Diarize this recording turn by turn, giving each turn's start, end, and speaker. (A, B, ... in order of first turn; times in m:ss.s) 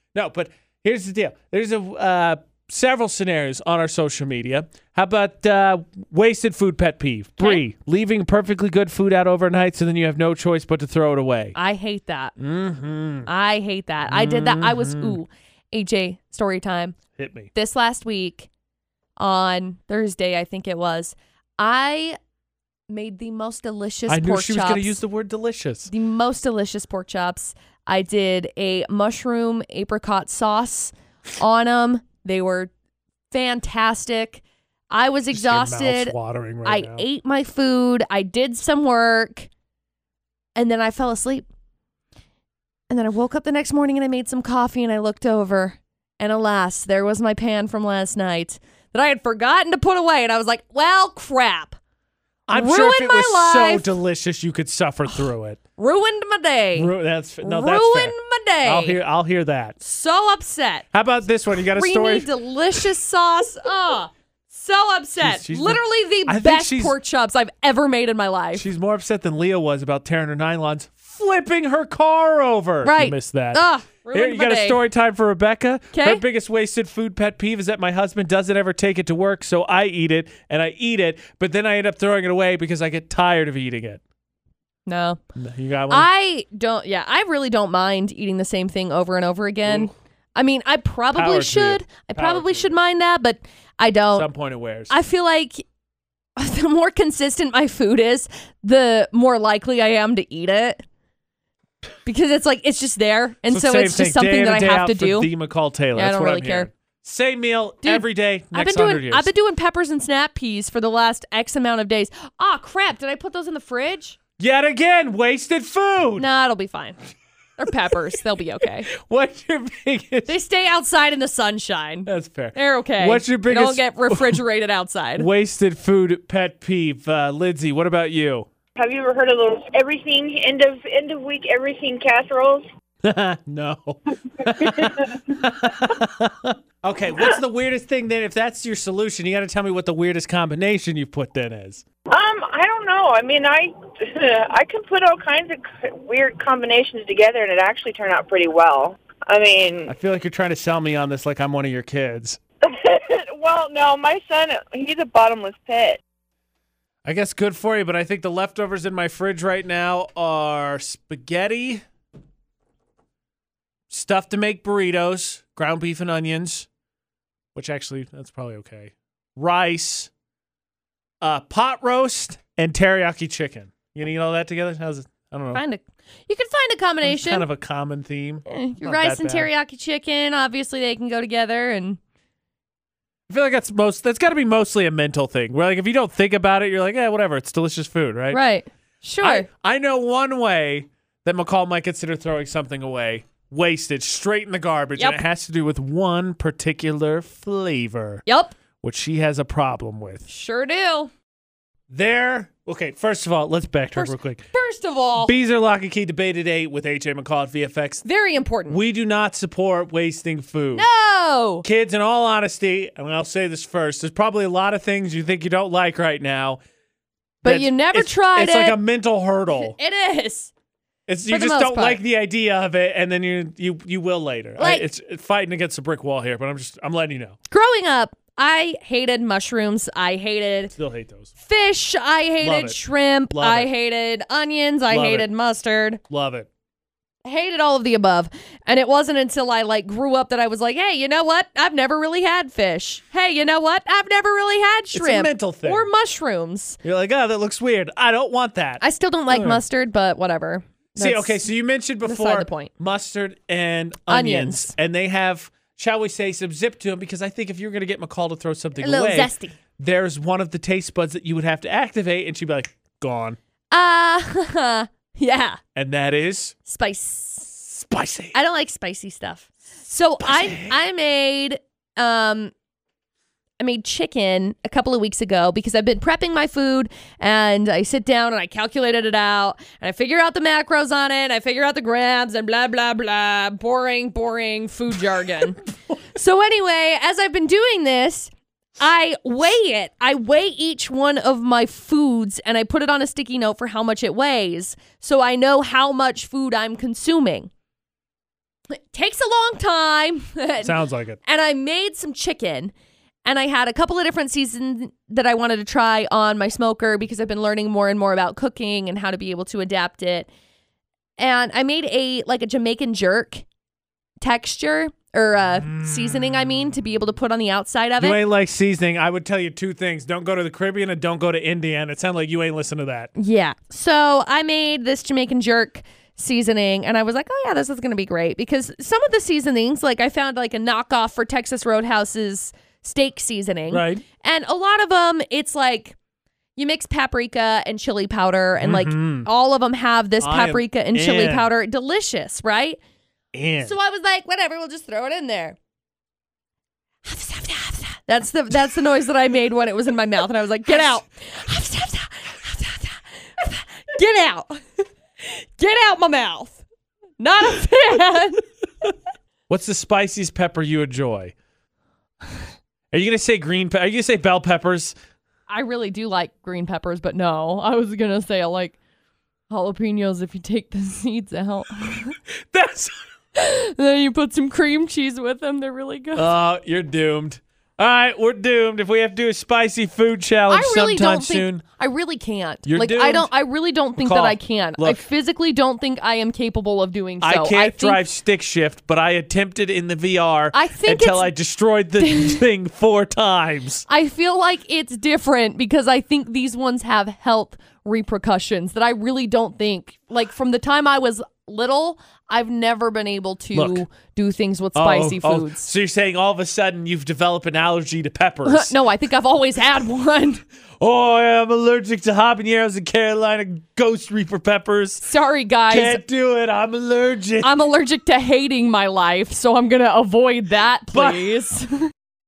0:00.1-0:11.6 A
0:11.5-0:12.3 B
0:12.4-0:13.3 A
0:13.2-0:17.0 B
0:14.0-0:15.2 A
0:17.2-0:17.5 A
0:17.5-0:18.5 B
0:19.2-0:22.2 B
0:22.9-0:25.0 B
0:24.1-0:25.9 A
0:25.9-0:32.7 B
0:33.3-0:39.5 B
0:35.3-0:37.0 A
0:40.6-0:41.5 B
0:42.9-0:51.8 B
0:52.5-0:55.6 A
0:52.5-0:53.9 B
0:55.8-0:59.0 B
0:56.7-0:59.8 A
0:59.8-1:00.8 B
1:00.9-1:02.3 A
1:01.7-1:08.6 B
1:05.2-1:06.9 A
1:08.6-1:24.0 A
1:12.8-1:14.8 B
1:15.9-1:16.2 B
1:24.9-1:25.2 B
1:25.3-1:26.1 A
1:25.9-1:34.3 B
1:29.6-1:29.9 A
1:31.1-1:32.7 A
1:34.1-1:35.0 A
1:34.9-1:35.6 B
1:36.4-1:40.8 B
1:42.0-1:45.3 B
1:43.5-1:49.3 A
1:45.9-1:46.7 B
1:47.8-1:54.2 B
1:54.4-1:56.3 A
1:56.2-1:57.0 B
1:57.6-1:58.9 B
1:58.9-2:00.4 A
2:00.2-2:05.3 B
2:02.0-2:04.4 A
2:05.2-2:08.5 A
2:08.8-2:12.6 C
2:13.0-2:21.8 A
2:14.6-2:15.0 C
2:22.1-2:29.9 C
2:29.9-2:32.4 A
2:32.6-2:36.0 C
2:37.0-2:41.8 A
2:43.9-2:46.7 A
2:47.5-2:50.1 A
2:51.2-2:55.6 A
2:55.5-2:57.5 B
2:57.0-2:59.5 A
2:58.4-3:02.0 B
3:03.3-3:08.4 A
3:08.3-3:09.5 B
3:09.2-3:18.2 A
3:15.0-3:15.2 B
3:18.2-3:18.6 B
3:18.8-3:20.2 A
3:20.3-3:21.1 B
3:21.9-3:24.5 A
3:23.9-3:25.3 B
3:25.2-3:28.0 A
3:28.0-3:28.8 B
3:28.7-3:30.9 A
3:30.7-3:31.6 B
3:31.6-3:36.6 A
3:37.4-3:38.8 B
3:37.4-3:39.8 A
3:39.5-3:40.5 B
3:41.1-3:47.4 A
3:41.3-3:42.0 B
3:44.6-3:44.9 B
3:47.5-3:50.7 B
3:50.7-3:51.3 A
3:51.4-3:56.0 B
3:52.4-3:52.8 A
3:53.3-3:53.7 A
3:54.9-3:55.3 A
3:56.1-3:56.5 A
3:57.2-4:06.8 B
4:04.9-4:05.9 A
4:06.8-4:09.6 A
4:08.8-4:11.5 B
4:11.0-4:23.4 A
4:12.0-4:12.7 B
4:14.1-4:14.7 B
4:18.8-4:19.5 B
4:23.7-4:25.6 B
4:25.7-4:26.6 A
4:26.6-4:27.6 B
4:27.7-4:28.4 A
4:28.3-4:32.5 B
4:30.2-4:30.8 A
4:33.6-4:57.5 B
4:58.7-5:02.7 B
5:00.6-5:01.2 A
5:03.2-5:10.3 B
5:11.2-5:13.4 B
5:14.2-5:18.2 B
5:15.6-5:16.5 A
5:18.0-5:23.1 A
5:23.2-5:36.0 B
5:33.7-5:34.0 A
5:36.6-5:42.8 B
5:38.6-5:39.3 A
5:40.2-5:41.5 A
5:43.3-5:43.8 A
5:43.6-5:45.6 B
5:47.0-5:56.6 B
5:57.2-5:58.4 B
5:59.5-6:01.3 A
6:02.9-6:04.9 A
6:05.5-6:08.8 B
6:09.5-6:12.2 B
6:12.5-6:13.0 A
6:13.3-6:16.3 B
6:16.2-6:21.6 A
6:20.5-6:28.0 B
6:22.6-6:23.3 A
6:24.0-6:25.0 A
6:27.2-6:33.9 A
6:30.5-6:31.3 B
6:32.0-6:32.4 B
6:33.9-6:45.7 B
6:43.5-6:43.8 A
6:44.7-6:48.7 A
6:48.4-6:50.4 B
6:50.8-6:55.1 A
6:55.0-6:56.0 B
6:55.7-6:57.5 A
6:57.4-7:01.9 B
7:00.9-7:01.3 A